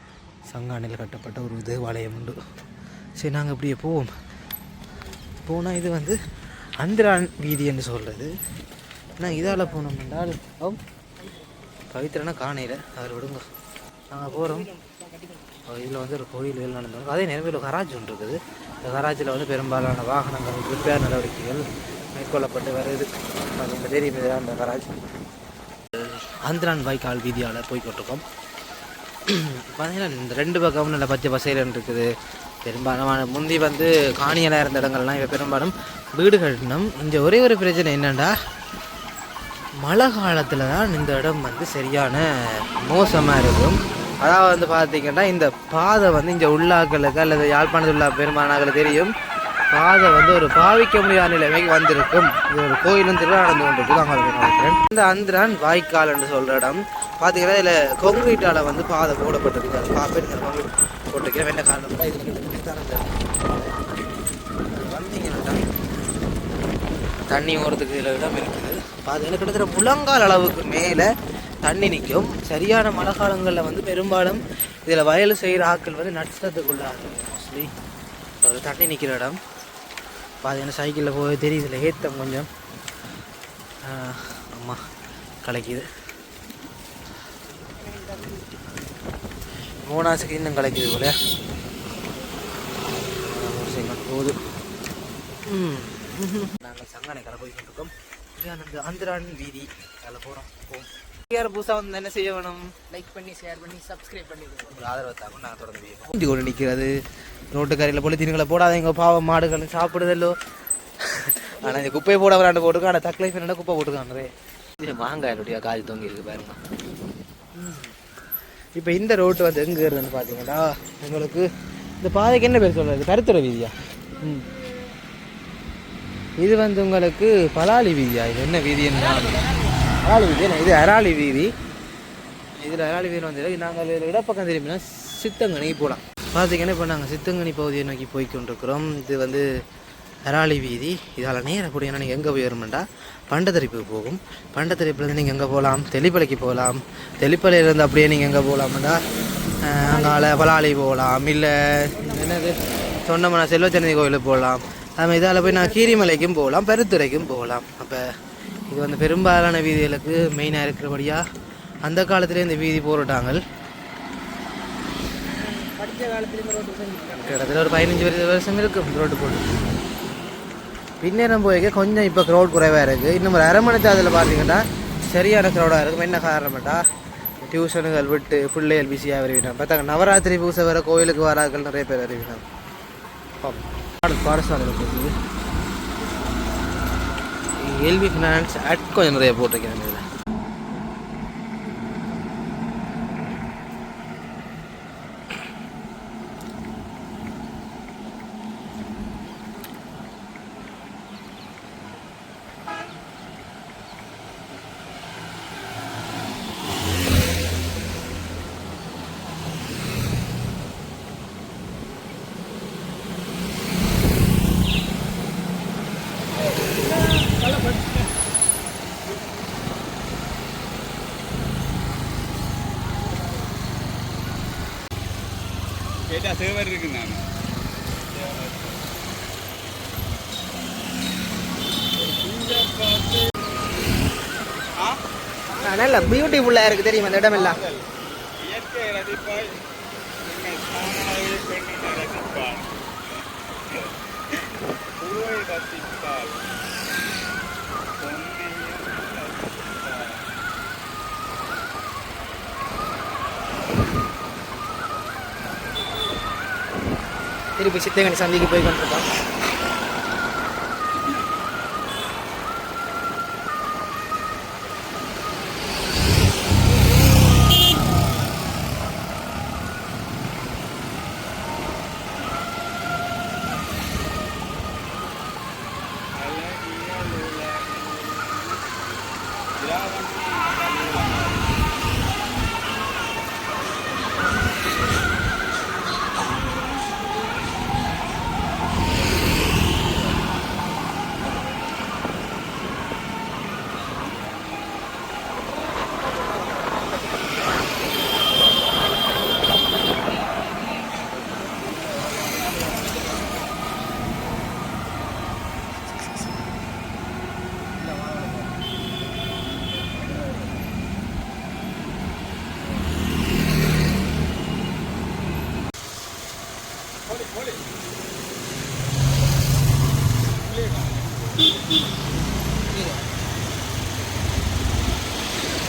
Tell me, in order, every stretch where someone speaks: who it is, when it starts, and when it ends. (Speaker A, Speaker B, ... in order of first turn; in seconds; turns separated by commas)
Speaker A: 0.5-2.4, Speaker A: 3.2-4.1, Speaker A: 5.5-6.2, Speaker A: 6.8-8.3, Speaker A: 9.2-10.8, Speaker A: 11.9-13.4, Speaker A: 14.1-14.7, Speaker B: 14.5-15.6, Speaker A: 15.7-21.6, Speaker A: 22.2-24.8, Speaker A: 25.9-28.2, Speaker A: 29.3-32.1, Speaker A: 32.6-38.3, Speaker A: 39.8-42.2, Speaker A: 42.8-49.1, Speaker A: 49.7-63.7, Speaker A: 64.7-65.6, Speaker A: 67.3-71.1, Speaker A: 71.6-77.7, Speaker A: 78.4-79.4, Speaker A: 80.4-82.5, Speaker A: 83.8-84.8, Speaker A: 85.4-85.8, Speaker B: 87.9-88.4, Speaker A: 89.8-91.1, Speaker A: 93.2-94.4, Speaker A: 95.5-102.7, Speaker B: 102.9-104.8, Speaker A: 104.7-106.9, Speaker A: 107.5-110.3, Speaker A: 111.1-116.6, Speaker A: 117.6-117.9, Speaker A: 118.8-121.5, Speaker A: 122.0-124.5, Speaker A: 126.4-129.4, Speaker A: 130.0-131.5, Speaker A: 132.6-139.4, Speaker A: 140.3-149.0, Speaker A: 149.6-158.0, Speaker B: 149.9-150.4, Speaker B: 155.4-156.1, Speaker A: 158.7-161.2, Speaker A: 161.9-163.4, Speaker B: 165.4-167.4, Speaker A: 167.2-169.5, Speaker A: 171.0-176.8, Speaker A: 177.4-182.4, Speaker A: 183.4-185.1, Speaker A: 187.6-190.0, Speaker C: 226.1-227.2, Speaker C: 228.1-228.8, Speaker C: 232.0-233.3, Speaker B: 235.6-237.6, Speaker C: 235.9-236.4, Speaker C: 237.3-237.9, Speaker C: 238.4-239.6, Speaker C: 240.2-242.8, Speaker C: 245.0-246.4, Speaker C: 248.0-250.2, Speaker B: 257.6-259.1, Speaker C: 276.2-278.6, Speaker C: 279.6-281.5, Speaker C: 320.4-321.5